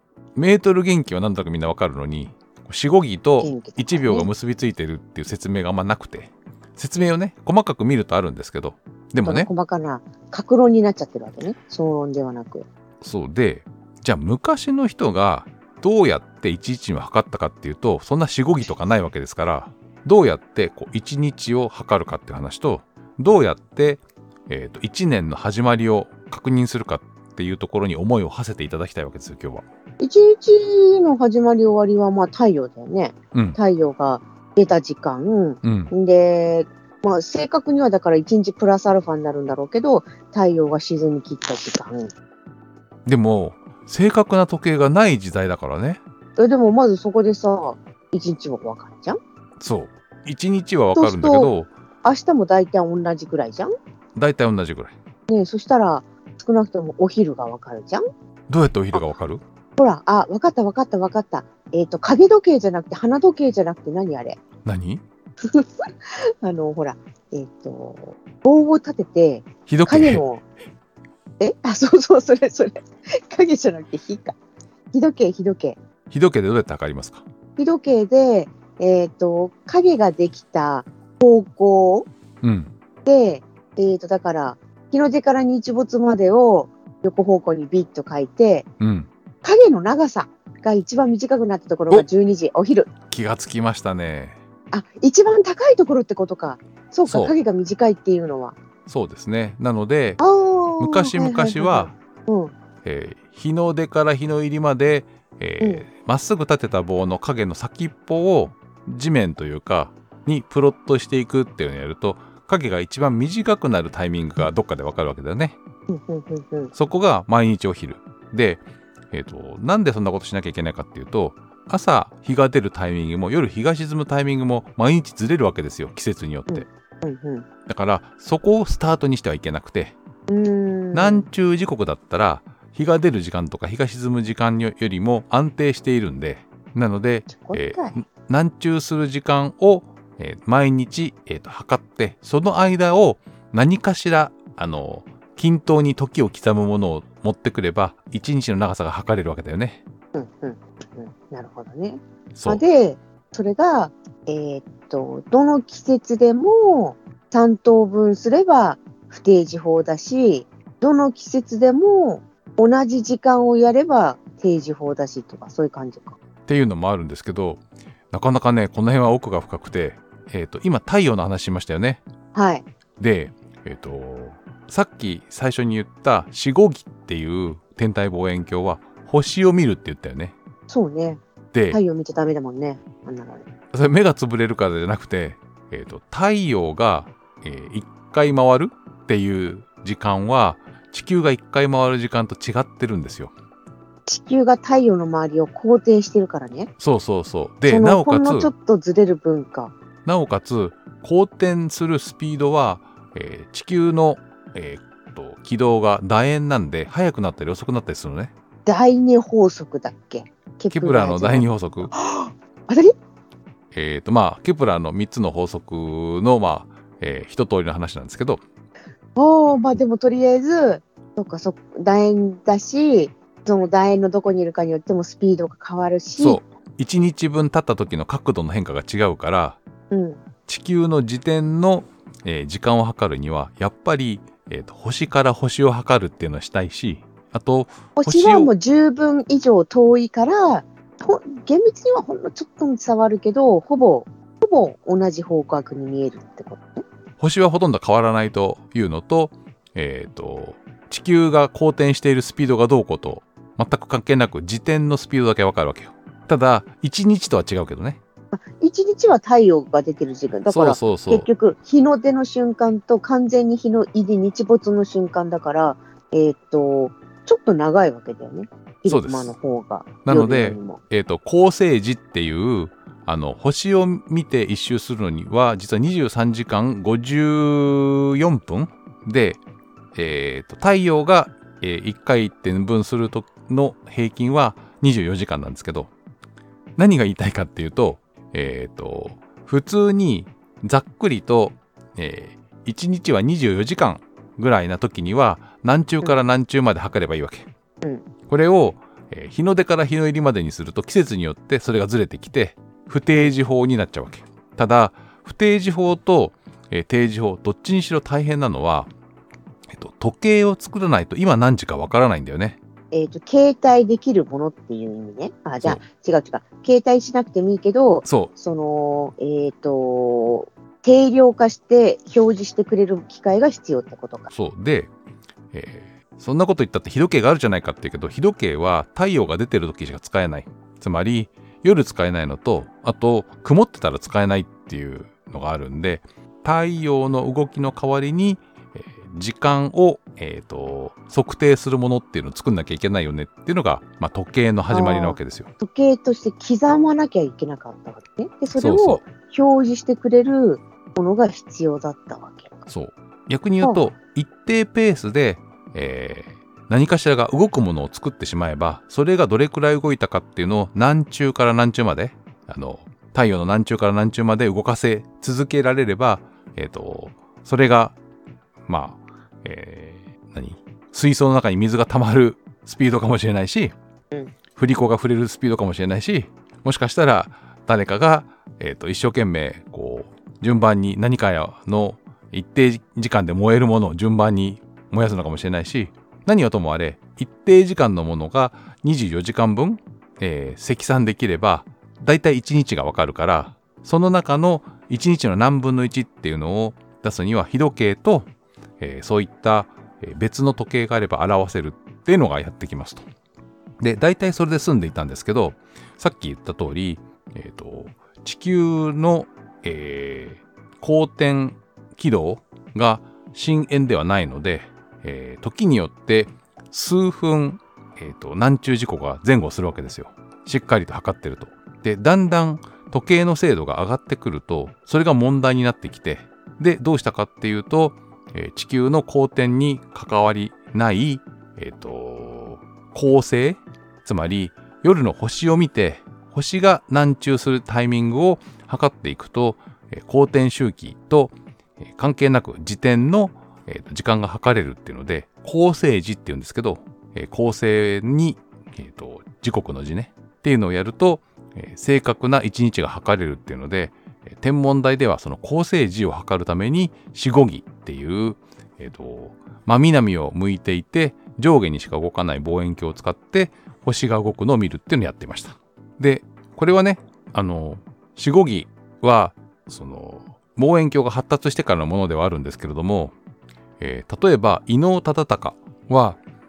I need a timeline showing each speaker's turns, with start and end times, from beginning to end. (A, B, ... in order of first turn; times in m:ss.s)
0:00.4-0:09.5 A
0:03.4-0:04.3 B
0:09.2-0:12.7 B
0:13.0-0:29.6 A
0:30.0-0:42.1 B
0:35.6-0:35.9 A
0:43.1-0:46.0 A
0:46.4-0:49.2 B
0:49.6-0:51.7 A
0:51.0-0:51.5 B
0:52.0-0:53.7 B
0:54.2-0:55.0 A
0:55.3-0:58.0 B
0:58.5-0:59.4 A
0:59.8-1:04.4 B
1:04.6-1:05.0 A
1:05.4-1:10.4 B
1:09.7-1:10.2 A
1:11.4-1:14.4 B
1:14.9-1:15.8 B
1:16.1-1:17.2 A
1:17.6-1:22.1 B
1:22.4-1:22.7 A
1:23.0-1:28.7 B
1:28.8-1:29.1 A
1:29.4-1:32.9 B
1:33.1-1:34.4 A
1:34.7-1:38.6 B
1:37.1-1:37.3 A
1:38.9-1:40.2 A
1:40.2-1:42.5 B
1:40.8-1:41.9 A
1:42.8-1:55.6 A
1:55.9-1:56.7 B
1:56.8-2:06.7 A
2:06.5-2:07.5 B
2:07.7-2:10.0 A
2:10.3-2:11.3 B
2:10.9-2:29.8 A
2:17.3-2:18.0 B
2:30.1-2:46.2 B
2:32.4-2:32.6 A
2:46.5-2:47.6 A
2:48.1-2:52.0 A
2:52.3-2:52.7 B
2:53.0-3:00.4 A
3:00.7-3:03.5 B
3:01.5-3:01.8 A
3:03.7-3:13.3 A
3:14.1-3:16.7 B
3:16.8-3:18.5 A
3:17.7-3:19.7 B
3:20.0-3:28.3 A
3:28.6-3:33.0 B
3:30.7-3:31.9 A
3:33.7-3:38.4 A
3:39.2-3:46.4 B
3:46.2-3:49.6 A
3:49.9-3:50.2 B
3:50.5-3:58.5 A
3:58.0-4:06.8 B
4:07.2-4:18.0 A
4:18.3-4:30.8 B
4:20.5-4:21.3 A
4:28.9-4:29.3 A
4:30.0-4:39.4 A
4:40.0-4:45.9 A
4:46.8-4:57.5 A
4:58.3-5:08.9 A
5:09.7-5:12.6 A
5:12.9-5:24.3 B
5:18.0-5:18.3 A
5:24.3-5:24.9 A
5:25.5-5:45.5 A
5:44.7-5:52.7 B
5:48.6-5:49.0 A
5:52.7-6:08.0 A
5:53.6-5:53.9 B
6:08.7-6:13.7 A
6:14.6-6:38.3 A
6:38.8-6:43.0 A
6:43.8-7:53.2 A
7:53.8-7:56.2 A